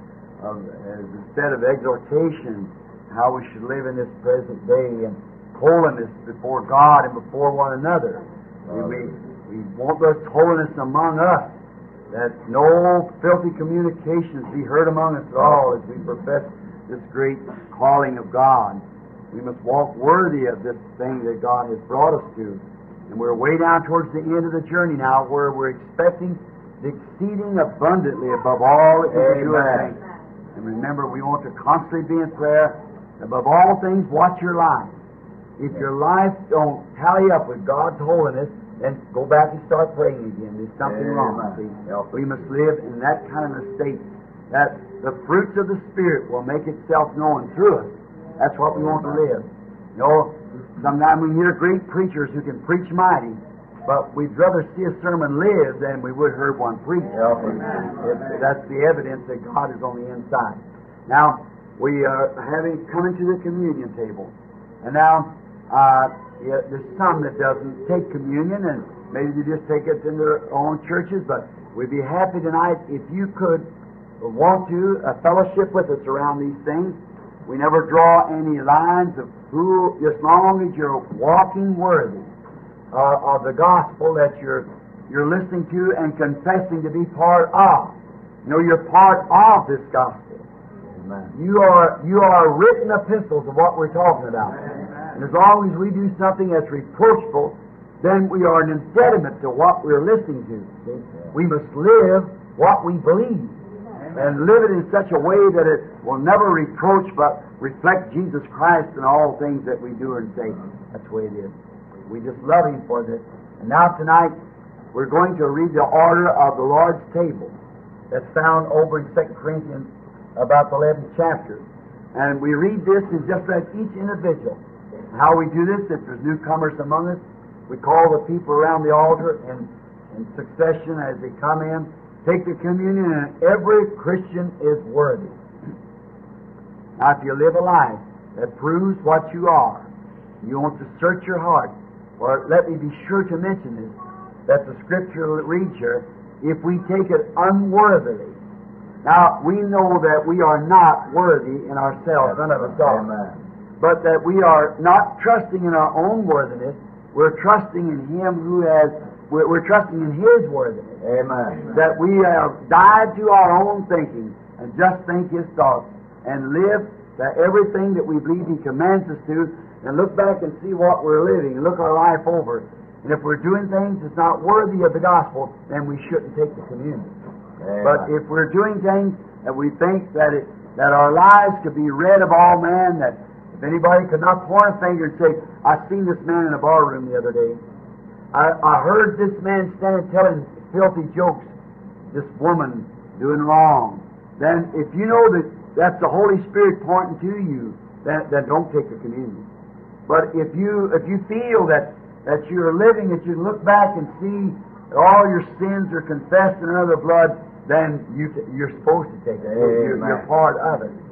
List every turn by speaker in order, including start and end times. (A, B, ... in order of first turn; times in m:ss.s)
0:00.4-0:11.5 A
0:12.1-0:30.0 A
0:29.1-0:29.9 B
0:30.6-0:35.0 A
0:35.6-1:04.3 A
0:40.8-0:42.2 B
0:57.2-0:57.9 B
1:04.8-1:13.7 A
1:14.2-1:22.3 A
1:22.9-1:30.4 A
1:30.9-1:31.3 B
1:31.3-1:43.6 A
1:44.1-1:51.5 A
1:52.1-1:54.3 A
1:54.9-1:57.5 A
1:58.1-2:04.6 A
2:05.1-2:15.4 A
2:17.0-2:19.9 A
2:20.4-2:24.0 A
2:24.5-2:28.4 A
2:29.0-2:33.1 A
2:32.5-2:33.4 B
2:33.8-2:40.9 A
2:41.0-2:41.7 B
2:41.7-2:57.1 A
2:57.6-2:58.1 B
2:57.8-3:07.6 A
3:08.3-3:11.5 A
3:12.1-3:19.5 A
3:20.1-3:31.0 A
3:29.4-3:30.2 B